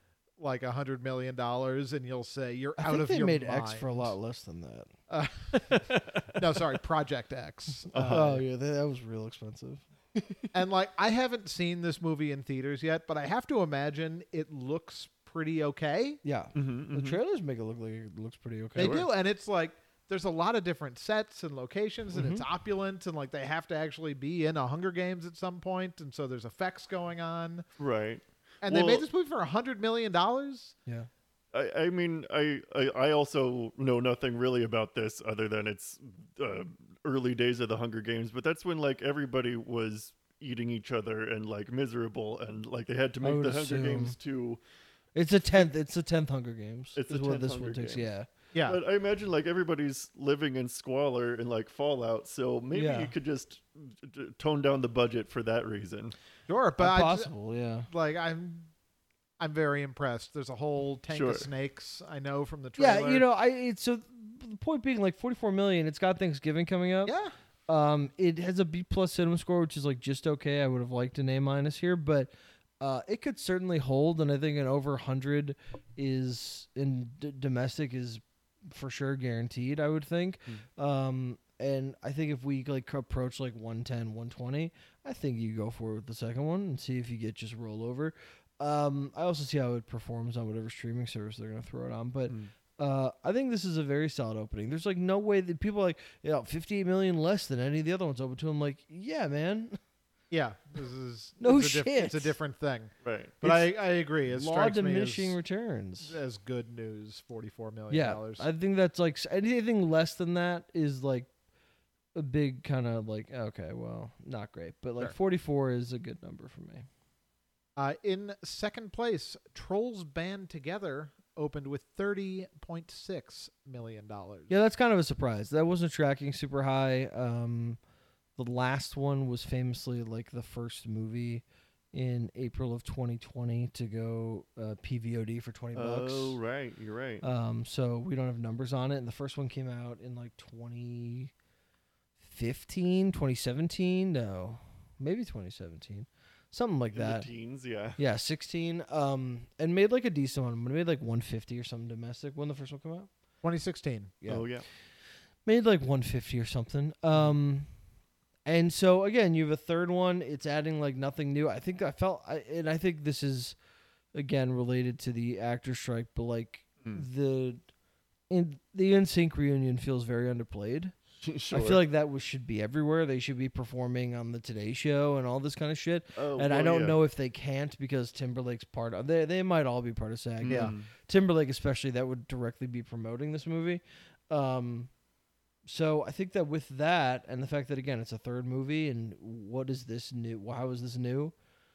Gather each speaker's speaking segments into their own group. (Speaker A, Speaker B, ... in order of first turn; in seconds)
Speaker A: 0.4-4.1, 5.1-8.4, 10.5-16.2, 18.8-27.6, 28.6-30.8, 48.5-48.8, 56.5-57.3, 57.9-58.7, 59.4-63.2, 67.1-67.3, 100.3-105.4, 106.0-108.5, 117.8-124.5, 153.4-154.2
Speaker B: 2.8-4.9, 8.1-9.8, 16.2-19.1, 22.1-22.4, 43.2-44.1, 45.1-48.3, 52.7-53.1, 56.8-57.9, 62.8-67.2, 67.7-99.8, 101.4-102.4, 104.3-106.2, 107.9-111.3, 112.2-116.9, 124.5-127.8, 128.4-136.4, 137.2-141.3, 142.2-147.3, 148.0-153.1, 155.4-157.7, 158.5-163.6, 164.2-167.6, 168.3-170.9, 171.5-184.9, 185.7-191.3
Speaker C: 7.9-8.4, 10.2-10.4, 16.6-17.2, 18.8-19.1, 27.8-29.0, 31.5-44.6, 47.0-48.1, 48.6-56.1, 61.1-61.5, 103.0-103.4, 135.8-137.2, 146.9-148.0, 154.3-154.7, 171.2-171.8, 176.2-177.0, 180.4-180.9